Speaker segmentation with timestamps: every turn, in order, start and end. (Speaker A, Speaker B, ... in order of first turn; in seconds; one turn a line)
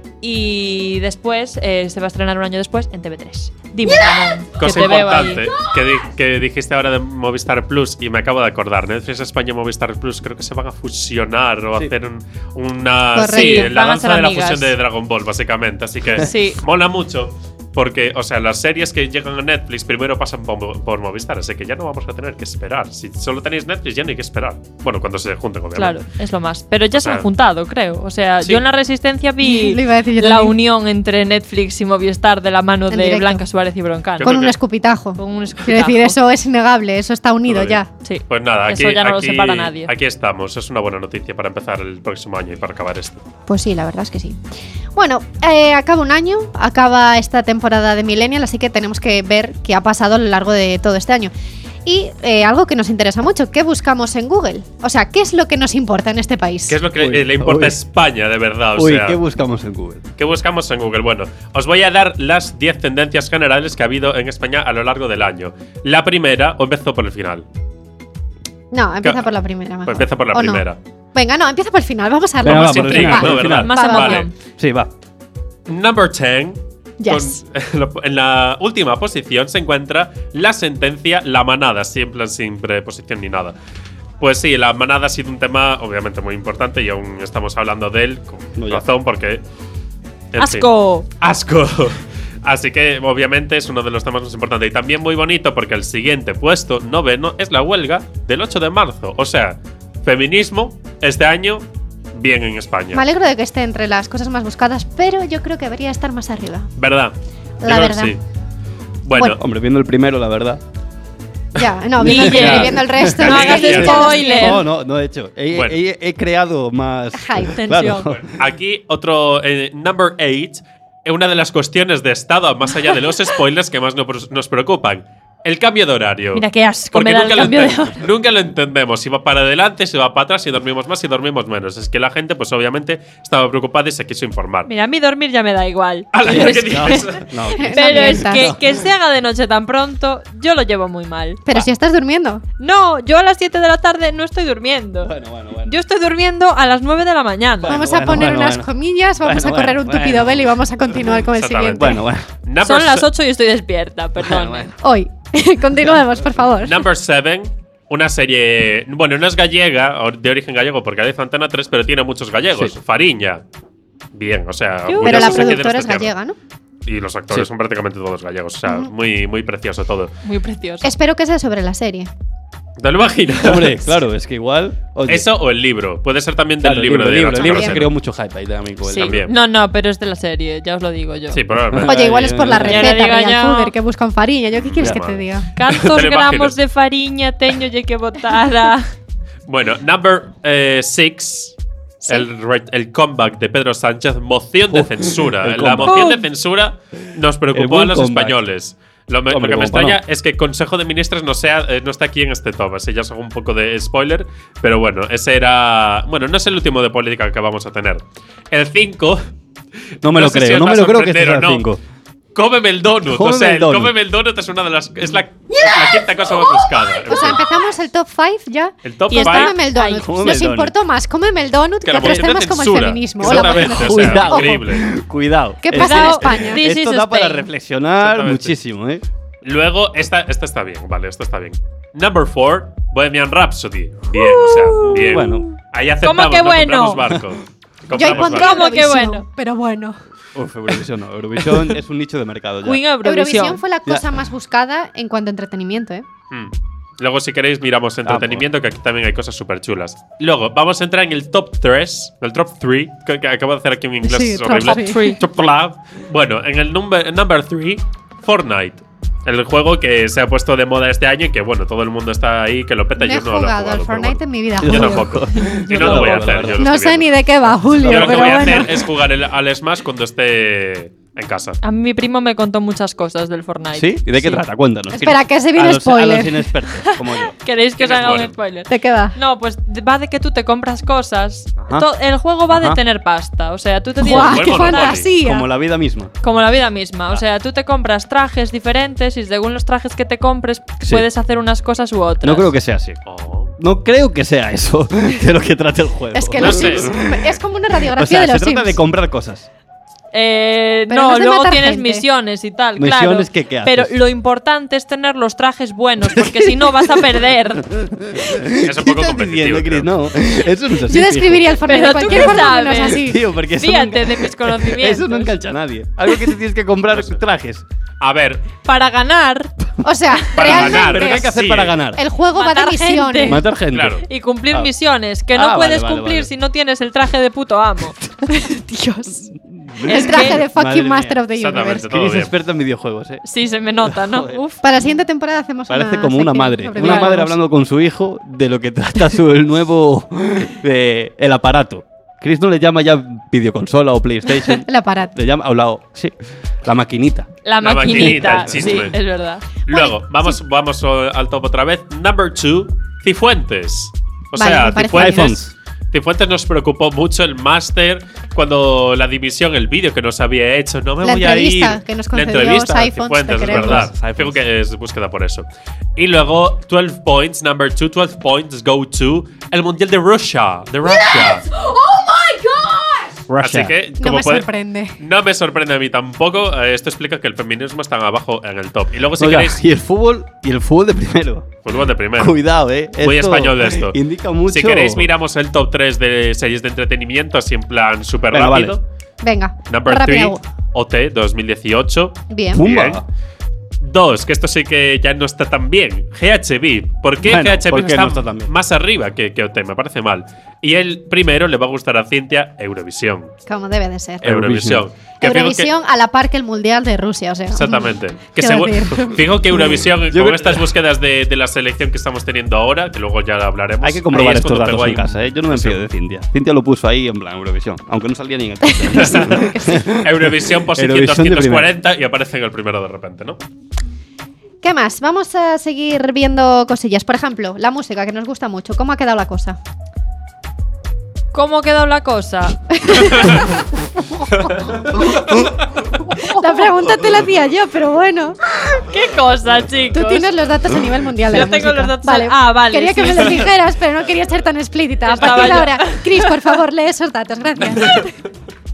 Speaker A: 0.2-5.5
Speaker B: 4.6-26.0
Speaker C: 13.2-13.7
Speaker A: 13.3-14.7
Speaker A: 16.2-16.6
Speaker A: 25.8-34.4
Speaker B: 26.9-27.3
Speaker C: 29.4-30.6
Speaker C: 32.9-33.4
Speaker B: 34.2-34.6
Speaker C: 34.2-37.9
Speaker A: 35.2-36.2
Speaker B: 37.5-43.2
Speaker A: 38.0-39.9
Speaker C: 43.5-44.4
Speaker C: 45.0-51.3
Speaker C: 51.9-56.8
Speaker B: 56.7-59.2
Speaker D: 57.0-57.8
Speaker D: 58.8-60.0
Speaker B: 60.2-67.5
Speaker C: 68.7-74.2
Speaker B: 69.8-70.8
Speaker D: 72.4-73.7
Speaker B: 72.4-74.3
Speaker A: 73.5-74.3
Speaker D: 74.6-74.9
Speaker B: 75.7-83.5
Speaker C: 77.0-77.4
Speaker B: 84.2-89.4
Speaker D: 88.6-88.8
Speaker B: 90.3-90.7
Speaker A: 90.4-91.1
Speaker B: 91.2-103.0
Speaker C: 102.9-106.7
Speaker B: 106.8-108.2
Speaker C: 107.6-108.2
Speaker B: 109.0-109.4
Speaker D: 109.2-110.6
Speaker C: 111.6-114.6
Speaker D: 112.0-118.3
Speaker A: 112.0-114.6
Speaker B: 113.2-114.2
Speaker B: 115.5-115.8
Speaker C: 117.2-117.9
Speaker A: 117.6-118.1
Speaker B: 118.2-134.7
Speaker A: 126.3-128.0
Speaker A: 134.7-137.1
Speaker B: 136.1-137.2
Speaker D: 136.2-138.8
Speaker C: 137.6-138.5
Speaker A: 137.7-141.4
Speaker C: 141.5-142.4
Speaker A: 142.6-145.1
Speaker D: 145.0-145.8
Speaker A: 145.7-147.8
Speaker D: 147.6-148.7
Speaker C: 147.7-152.0
Speaker D: 149.2-150.6
Speaker B: 151.3-153.1
Speaker D: 151.8-152.2
Speaker A: 152.6-154.7
Speaker D: 154.2-154.7
Speaker C: 154.8-156.8
Speaker B: 156.6-163.4
Speaker B: 164.1-166.1
Speaker A: 164.9-165.6
Speaker C: 165.0-166.4
Speaker B: 166.9-170.1
Speaker A: 170.2-170.9
Speaker C: 170.8-172.1
Speaker B: 172.8-173.9
Speaker D: 173.4-175.3
Speaker B: 175.1-177.9
Speaker D: 176.6-179.2
Speaker C: 177.4-177.8
Speaker A: 178.9-181.4
Speaker B: 178.9-179.3
Speaker B: 181.3-181.9
Speaker D: 181.7-183.0
Speaker C: 181.8-185.5
Speaker A: 182.6-183.8
Speaker B: 184.6-186.6
Speaker A: 185.6-188.9
Speaker B: 189.5-209.2
Speaker D: 194.7-196.1
Speaker A: 195.9-196.2
Speaker D: 197.5-198.4
Speaker D: 199.3-200.0
Speaker D: 210.0-211.8
Speaker B: 210.1-211.7
Speaker B: 212.3-217.4
Speaker D: 213.1-213.9
Speaker C: 217.1-224.6
Speaker B: 218.8-219.5
Speaker A: 219.1-220.1
Speaker D: 220.0-220.7
Speaker B: 221.8-224.9
Speaker D: 223.2-229.0
Speaker C: 225.6-226.6
Speaker A: 225.7-227.5
Speaker B: 228.0-228.6
Speaker B: 229.4-238.6
Speaker A: 234.1-235.3
Speaker D: 235.1-235.5
Speaker A: 236.0-237.0
Speaker C: 237.9-240.0
Speaker A: 238.2-239.2
Speaker D: 240.3-242.8
Speaker A: 242.6-243.6
Speaker C: 243.0-246.1
Speaker B: 246.3-267.2
Speaker D: 248.1-248.5
Speaker C: 254.0-255.2
Speaker A: 254.6-255.2
Speaker C: 263.0-265.1
Speaker D: 264.6-266.7
Speaker C: 266.6-268.8
Speaker D: 267.6-268.7
Speaker B: 267.8-271.6
Speaker A: 271.6-274.4
Speaker D: 273.7-277.3
Speaker C: 275.0-276.5
Speaker A: 276.9-284.9
Speaker B: 277.8-278.3
Speaker C: 278.7-279.1
Speaker D: 281.6-281.9
Speaker D: 282.5-282.8
Speaker C: 284.0-285.5
Speaker B: 284.1-285.1
Speaker D: 285.1-286.1
Speaker A: 286.2-292.5
Speaker D: 292.2-293.0
Speaker B: 293.1-293.5
Speaker D: 293.6-297.4
Speaker C: 296.1-298.8
Speaker B: 296.4-296.9
Speaker D: 297.9-299.5
Speaker A: 300.1-307.6
Speaker C: 300.9-302.1
Speaker D: 302.8-304.0
Speaker D: 306.1-306.7
Speaker D: 307.6-317.6
Speaker B: 308.6-309.9
Speaker C: 310.9-313.2
Speaker A: 311.7-315.4
Speaker B: 316.9-317.2
Speaker B: 318.0-318.4
Speaker A: 318.6-319.5
Speaker C: 319.8-321.4
Speaker B: 320.3-321.8
Speaker D: 320.4-322.0
Speaker C: 321.9-323.4
Speaker A: 322.4-323.4
Speaker D: 323.2-324.7
Speaker B: 323.7-324.0
Speaker A: 324.1-328.0
Speaker D: 325.3-326.3
Speaker C: 328.3-329.2
Speaker D: 329.3-333.2
Speaker C: 329.9-331.9
Speaker A: 329.9-330.4
Speaker B: 331.4-332.3
Speaker A: 333.2-334.6
Speaker D: 333.8-334.4
Speaker C: 334.6-337.4
Speaker D: 335.7-346.1
Speaker A: 336.8-337.1
Speaker C: 344.7-345.1
Speaker D: 346.6-347.3
Speaker A: 347.4-349.5
Speaker B: 347.6-349.0
Speaker D: 347.9-348.7
Speaker B: 349.7-355.4
Speaker C: 349.7-350.4
Speaker C: 354.4-355.4
Speaker D: 354.9-355.5
Speaker B: 355.9-371.4
Speaker C: 361.0-363.9
Speaker D: 363.4-364.4
Speaker D: 373.3-373.8
Speaker B: 373.4-374.5
Speaker C: 374.0-374.9
Speaker B: 375.0-379.6
Speaker D: 379.2-381.5
Speaker B: 381.6-382.4
Speaker D: 382.2-385.1
Speaker B: 383.0-384.0
Speaker B: 384.5-388.8
Speaker D: 388.3-388.8
Speaker C: 389.2-390.4
Speaker B: 389.7-393.0
Speaker C: 392.3-392.6
Speaker D: 392.5-393.1
Speaker B: 393.8-403.3
Speaker D: 397.2-398.5
Speaker C: 403.5-404.2
Speaker D: 404.2-404.9
Speaker B: 404.2-405.7
Speaker C: 405.2-409.2
Speaker B: 407.5-415.9
Speaker D: 410.1-410.7
Speaker D: 413.8-421.7
Speaker C: 418.7-419.9
Speaker B: 418.9-419.5
Speaker B: 420.0-423.4
Speaker C: 424.6-429.6
Speaker A: 431.3-432.6
Speaker C: 432.8-433.6
Speaker C: 434.9-435.5
Speaker C: 436.2-438.4
Speaker A: 438.8-440.3
Speaker C: 439.9-448.1
Speaker A: 441.3-443.4
Speaker A: 445.1-446.3